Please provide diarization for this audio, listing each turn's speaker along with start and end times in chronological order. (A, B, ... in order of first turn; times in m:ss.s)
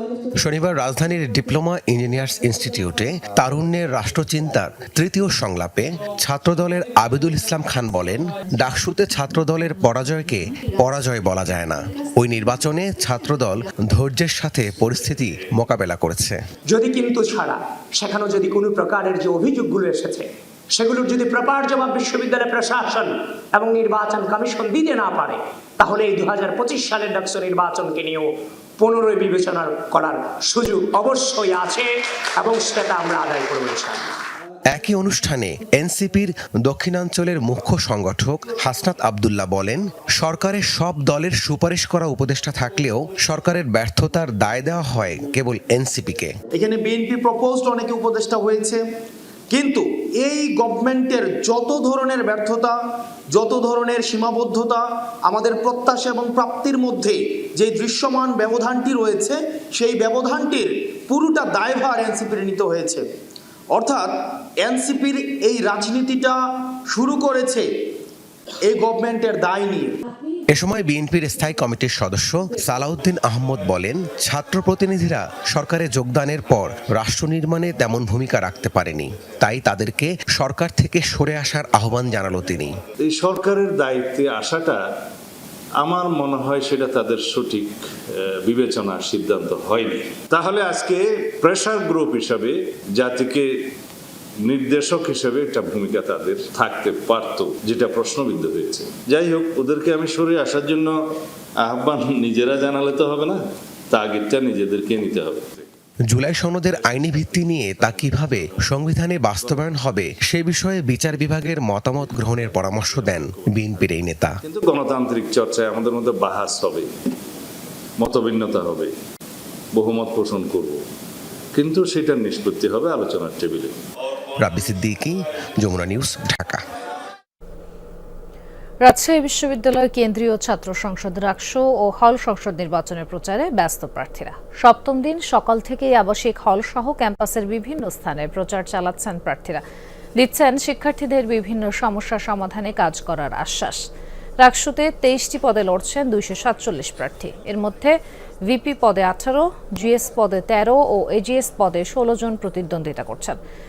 0:00.4-0:16.4 A
0:16.7-0:34.1 B
0:34.7-0:46.3 A
0:46.5-0:48.8 C
0:49.5-0:52.8 C
0:53.3-1:03.0 C
1:03.7-1:04.1 C
1:04.6-1:06.4 C
1:06.9-1:07.6 C
1:08.6-1:10.0 C
1:10.5-1:22.8 A
1:23.0-1:24.8 D
1:25.8-1:33.6 D
1:34.4-1:40.9 D
1:41.6-1:45.6 D
1:46.1-1:54.4 A
1:54.4-1:56.9 D
1:58.0-1:58.9 D
1:59.7-2:00.8 D
2:01.5-2:03.8 D
2:04.4-2:06.6 A
2:08.8-2:19.6 E
2:20.2-2:23.8 E
2:24.4-2:33.4 E